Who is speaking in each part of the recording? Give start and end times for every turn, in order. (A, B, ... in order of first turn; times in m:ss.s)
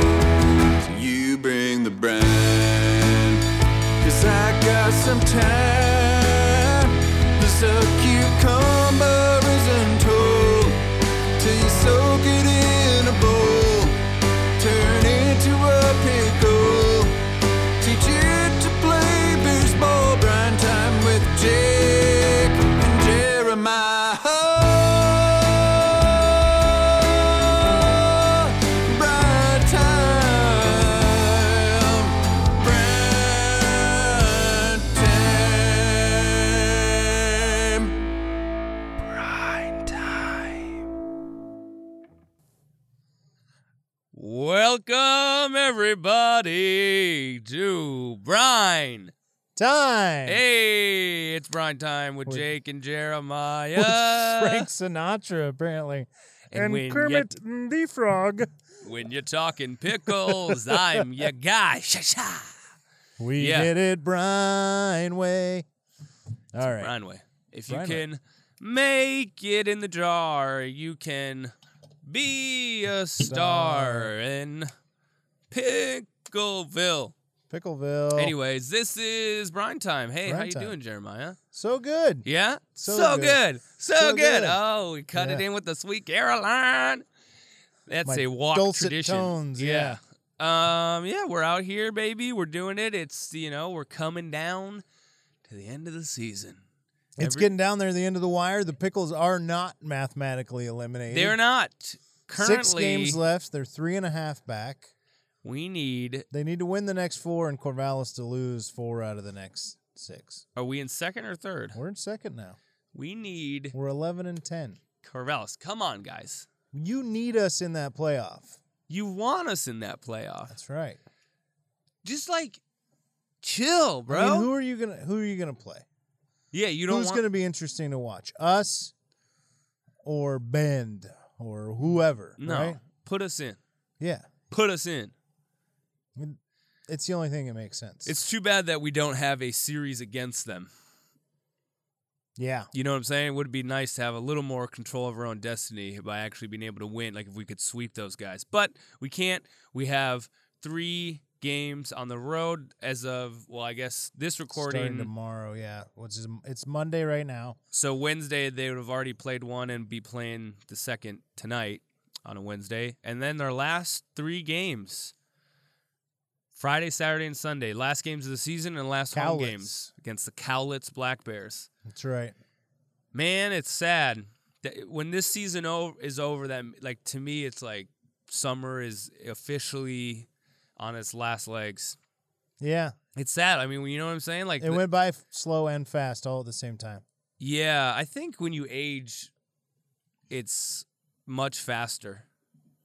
0:00.8-0:03.4 A
0:04.0-0:10.8 A
0:11.4-0:14.0 A
0:14.6-0:17.2 A
0:17.8-0:27.1 A
0:27.7-0:37.9 A
0:39.0-0:40.8 B
0:44.1-0:49.1 B
0:49.6-0:50.4 C
0:50.3-0:54.7 B
0:53.8-0:58.5 C
0:56.5-0:57.3 B
0:58.8-1:02.6 B
1:00.1-1:01.0 C
1:03.2-1:05.6 C
1:03.4-1:03.7 B
1:06.5-1:06.9 C
1:06.6-1:11.5 B
1:07.7-1:08.0 C
1:12.0-1:14.7 B
1:13.2-1:14.1 C
1:15.5-1:17.2 B
1:17.5-1:18.3 C
1:18.2-1:21.4 B
1:20.2-1:20.8 C
1:21.5-1:23.4 C
1:22.2-1:27.0 B
1:24.0-1:24.6 C
1:25.1-1:25.4 C
1:27.9-1:34.8 B
1:28.0-1:30.0 C
1:35.5-1:36.6 B
1:37.2-1:37.5 B
1:37.2-1:41.4 C
1:41.1-1:43.2 B
1:42.4-1:44.9 C
1:45.4-1:46.3 B
1:46.3-1:50.4 C
1:50.6-1:51.8 B
1:51.8-1:52.6 C
1:52.9-1:53.8 B
1:53.7-1:54.8 C
1:55.0-1:56.5 B
1:56.7-1:58.6 C
1:58.9-2:00.5 B
2:00.5-2:01.0 C
2:02.0-2:02.6 B
2:03.4-2:04.5 B
2:04.1-2:05.8 C
2:06.5-2:07.2 B
2:06.9-2:08.9 C
2:10.0-2:12.8 C
2:12.4-2:13.6 B
2:14.0-2:14.3 C
2:14.5-2:15.1 B
2:16.2-2:18.2 C
2:18.1-2:20.7 B
2:22.4-2:22.7 C
2:22.7-2:35.1 B
2:34.5-2:37.6 C
2:37.7-2:45.1 B
2:46.6-2:51.7 B
2:49.1-2:49.8 C
2:51.9-2:52.3 C
2:53.1-3:00.3 B
3:00.8-3:02.0 B
3:02.6-3:03.0 C
3:03.2-3:04.8 B
3:04.6-3:07.0 C
3:07.4-3:09.3 B
3:10.3-3:12.2 B